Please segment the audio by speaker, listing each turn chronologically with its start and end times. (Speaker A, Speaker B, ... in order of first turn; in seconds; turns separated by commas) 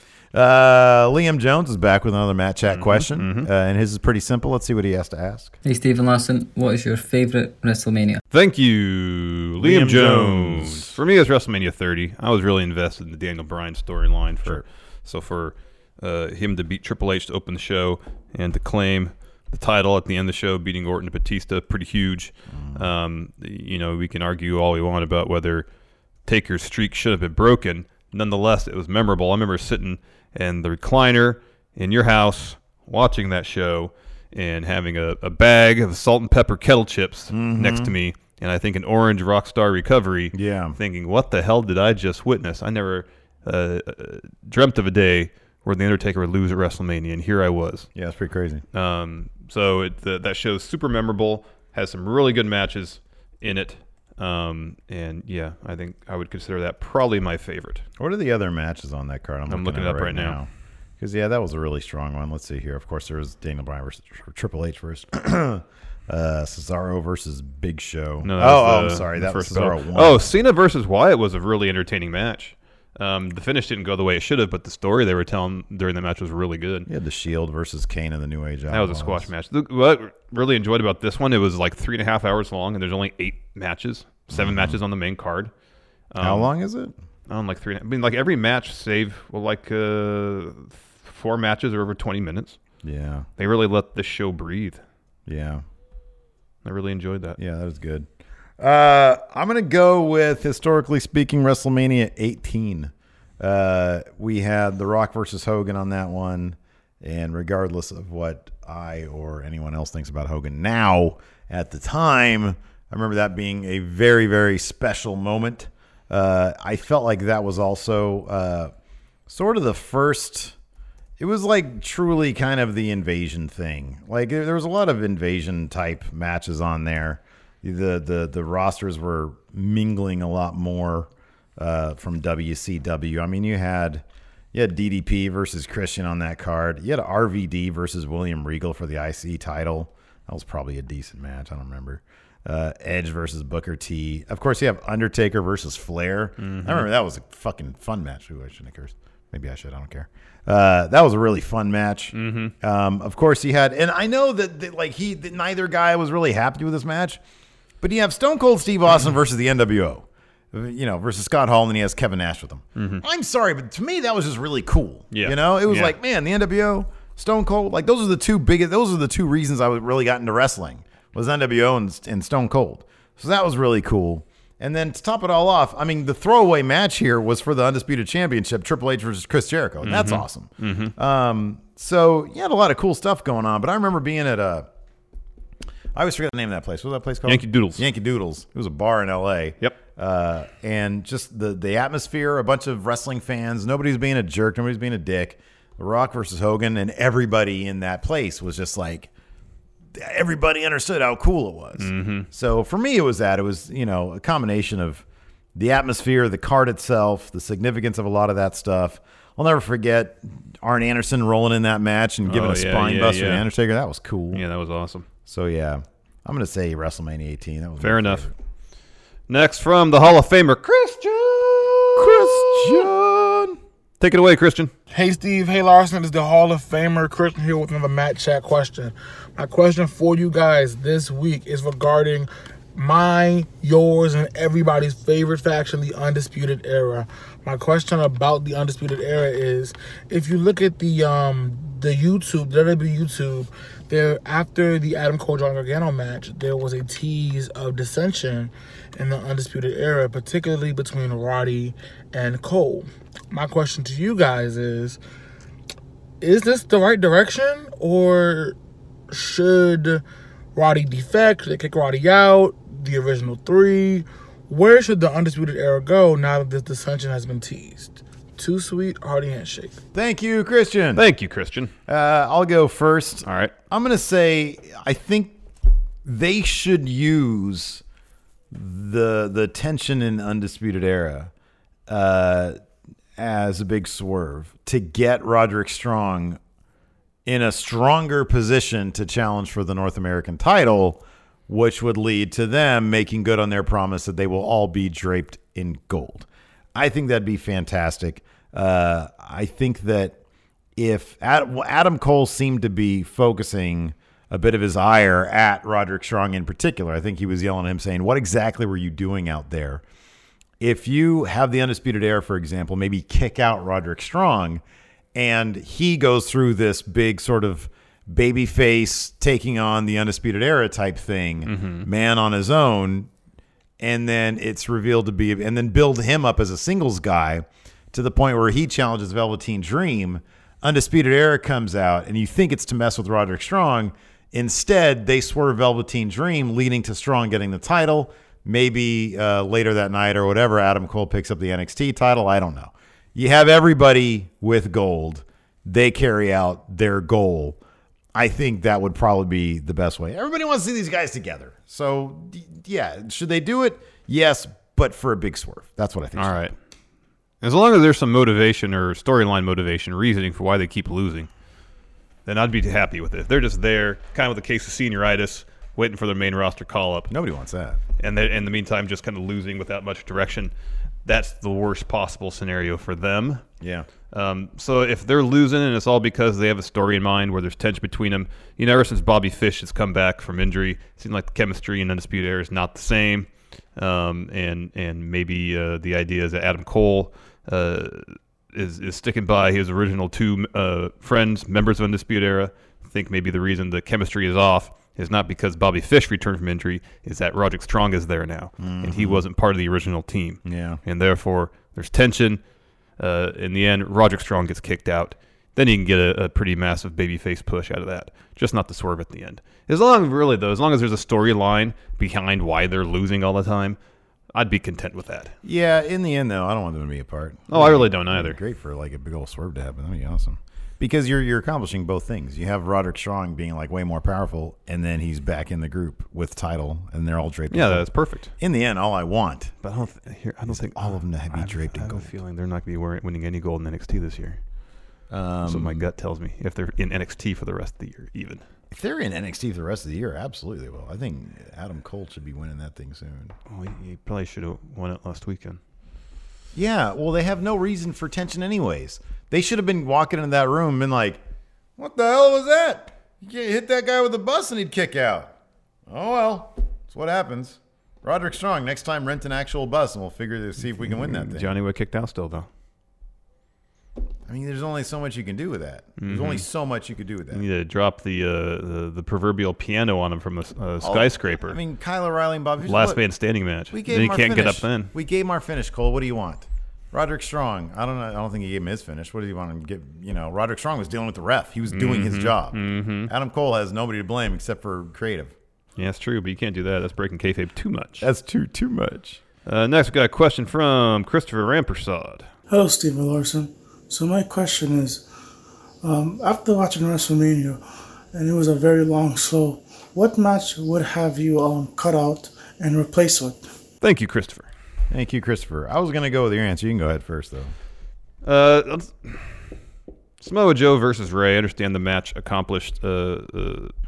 Speaker A: 0.3-5.6, Speaker B: 2.7-3.5, Speaker C: 5.7-8.2, Speaker B: 8.3-25.7, Speaker A: 9.6-11.0, Speaker A: 22.5-22.9, Speaker B: 26.3-47.9, Speaker A: 37.3-37.9, Speaker A: 40.3-40.8, Speaker A: 48.0-48.6, Speaker B: 48.7-57.8, Speaker A: 58.0-60.5, Speaker B: 59.5-60.4, Speaker A: 61.0-70.2, Speaker B: 68.2-76.9, Speaker A: 76.9-79.3, Speaker B: 78.7-85.5, Speaker A: 84.3-84.8, Speaker B: 86.1-86.5, Speaker A: 86.2-86.9, Speaker B: 87.3-92.6, Speaker A: 92.8-93.3, Speaker B: 93.4-94.8, Speaker A: 95.3-95.6, Speaker B: 96.6-97.4, Speaker A: 97.4-98.1, Speaker A: 98.6-118.7, Speaker A: 119.3-120.5, Speaker A: 121.2-157.2, Speaker B: 146.4-146.9, Speaker B: 152.1-152.5, Speaker A: 157.8-184.7, Speaker B: 162.8-163.0, Speaker B: 165.1-165.9, Speaker B: 179.8-180.9, Speaker A: 185.9-199.1, Speaker B: 187.3-187.8, Speaker A: 199.9-214.4, Speaker B: 201.8-202.3, Speaker B: 212.3-213.4, Speaker B: 214.3-215.1, Speaker A: 215.3-218.3, Speaker B: 217.8-218.2, Speaker B: 219.3-222.9, Speaker A: 221.9-223.6, Speaker B: 224.0-224.7, Speaker D: 224.9-255.0, Speaker D: 256.2-258.6, Speaker D: 259.1-260.0, Speaker D: 260.6-269.8, Speaker A: 269.9-271.0, Speaker B: 270.9-271.7, Speaker A: 271.9-275.4, Speaker B: 273.2-273.5, Speaker A: 276.0-277.8, Speaker A: 278.5-281.3, Speaker A: 281.9-282.6, Speaker A: 283.2-286.4, Speaker A: 287.3-300.2, Speaker A: 300.8-309.8, Speaker A: 310.6-314.6, Speaker A: 315.1-323.1, Speaker B: 321.4-321.9, Speaker A: 323.8-347.6, Speaker A: 348.1-356.5, Speaker B: 356.2-356.5, Speaker B: 357.4-361.3, Speaker B: 362.3-367.1, Speaker A: 367.1-367.8, Speaker B: 368.0-370.5, Speaker B: 371.1-373.4, Speaker A: 373.6-373.9, Speaker B: 374.1-402.4, Speaker A: 398.6-399.2, Speaker A: 400.4-400.8, Speaker B: 403.0-413.8, Speaker B: 414.3-415.3, Speaker A: 415.4-427.9, Speaker B: 417.5-418.4, Speaker B: 427.5-428.3, Speaker A: 428.4-429.5, Speaker B: 429.6-434.4, Speaker A: 430.5-432.1, Speaker A: 435.1-435.9, Speaker B: 435.4-438.4, Speaker A: 438.7-443.4, Speaker B: 443.5-445.6, Speaker A: 446.5-451.2, Speaker A: 451.8-455.3, Speaker A: 455.9-461.5, Speaker B: 460.8-462.5, Speaker A: 464.3-467.4, Speaker B: 466.0-466.4, Speaker B: 467.3-471.6, Speaker A: 470.8-473.0, Speaker B: 472.6-474.9, Speaker A: 473.7-485.4, Speaker B: 481.7-483.1, Speaker B: 485.8-488.1, Speaker A: 488.0-489.2, Speaker B: 489.5-492.3, Speaker E: 492.5-495.1, Speaker E: 495.8-497.6, Speaker E: 498.1-503.4, Speaker B: 503.8-504.5, Speaker A: 504.9-507.5, Speaker B: 508.2-509.3, Speaker B: 510.2-513.7